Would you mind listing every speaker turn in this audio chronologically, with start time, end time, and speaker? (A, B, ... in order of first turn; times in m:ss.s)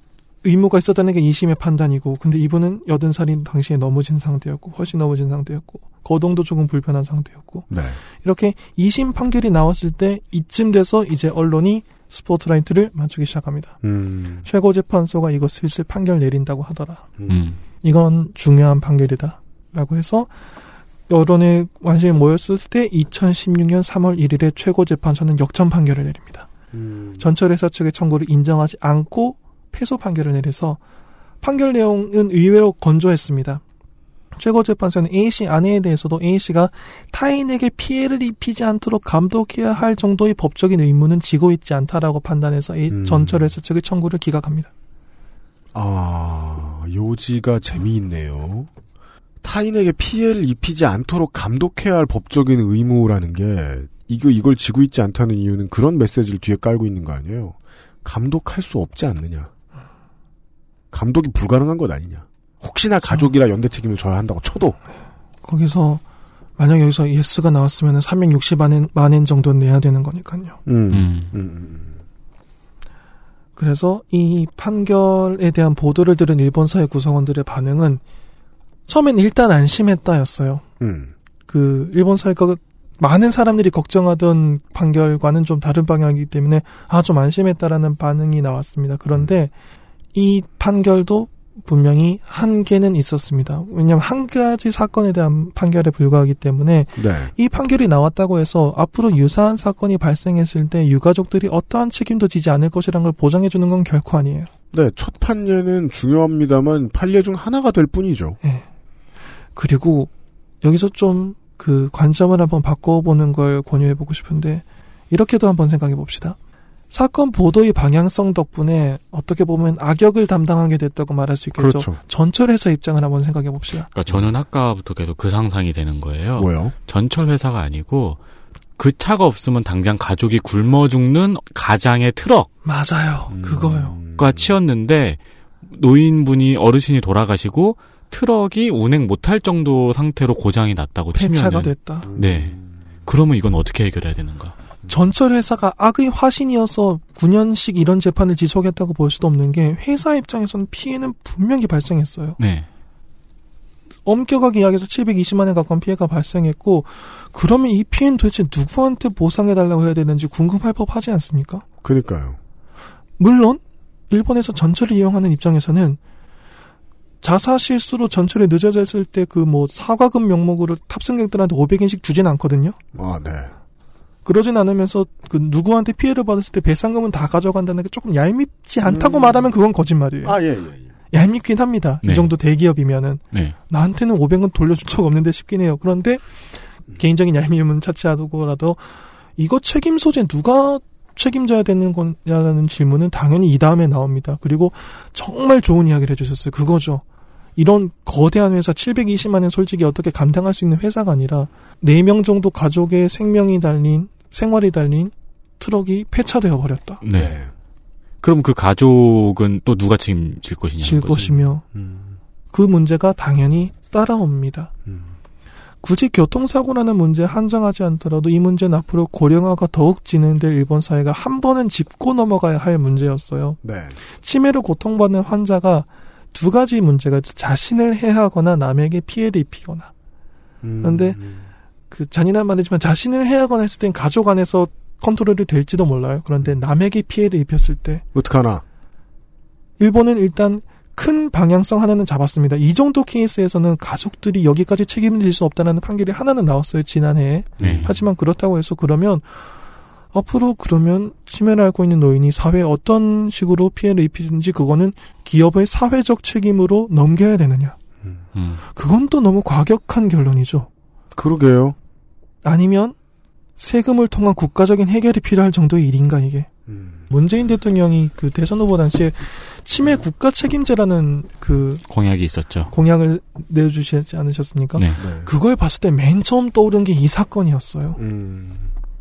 0:00.4-0:13.8 A
0:07.7-0:08.0 B
0:13.8-0:14.5 B
0:14.4-0:17.1 A
0:17.2-0:17.4 B
0:17.3-0:17.6 C
0:17.8-0:20.3 A
0:21.1-0:26.5 A
0:26.7-0:27.2 B
0:27.2-0:30.8 A
0:31.4-0:33.6 A
0:34.3-0:44.7 A
0:42.9-0:43.5 B
0:45.7-0:48.7 B
0:49.4-0:59.5 B
1:00.9-1:04.8 B
1:05.4-1:06.0 A
1:06.6-1:10.6 A
1:10.6-1:12.0 B
1:10.9-1:11.3 C
1:13.6-1:18.0 A
1:18.9-1:20.6 A
1:20.8-1:21.1 B
1:21.5-1:29.5 A
1:30.1-1:44.5 A
1:37.0-1:37.3 B
1:44.7-1:48.4 B
1:49.6-1:50.1 A
1:50.6-1:56.4 A
1:56.9-2:03.9 A
2:01.6-2:02.0 B
2:03.9-2:08.2 C
2:06.4-2:06.7 B
2:08.8-2:12.5 C
2:12.6-2:14.0 A
2:13.3-2:14.5 B
2:14.2-2:24.5 C
2:21.1-2:22.1 A
2:22.0-2:22.6 B
2:24.9-2:32.4 A
2:32.4-2:32.7 C
2:34.0-2:41.6 A
2:41.8-2:42.4 B
2:43.2-2:46.0 A
2:47.2-2:52.8 A
2:52.9-2:53.5 B
2:54.2-3:00.4 A
2:58.8-2:59.5 B
3:00.2-3:00.9 B
3:01.1-3:06.4 A
3:02.0-3:02.3 C
3:06.9-3:17.0 A
3:17.6-3:27.0 A
3:27.0-3:27.3 C
3:27.1-3:27.5 B
3:28.2-3:31.3 C
3:30.8-3:31.6 A
3:31.2-3:32.2 B
3:32.5-3:34.7 A
3:34.8-3:35.1 B
3:35.8-3:43.6 A
3:43.6-3:44.0 B
3:44.1-3:49.9 A
3:50.6-3:51.4 B
3:50.8-3:51.2 A
3:51.9-3:58.0 A
3:58.1-3:58.6 B
3:59.8-4:09.5 A
4:07.6-4:07.9 B
4:07.6-4:08.0 C
4:10.1-4:17.8 A
4:18.3-4:18.6 C
4:18.7-4:20.7 A
4:21.1-4:21.8 B
4:22.4-4:22.9 A
4:23.6-4:26.5 A
4:26.7-4:27.1 B
4:27.1-4:31.8 A
4:31.9-4:32.7 C
4:32.7-4:38.0 A
4:34.8-4:35.0 C
4:35.0-4:35.3 B
4:38.0-4:38.7 B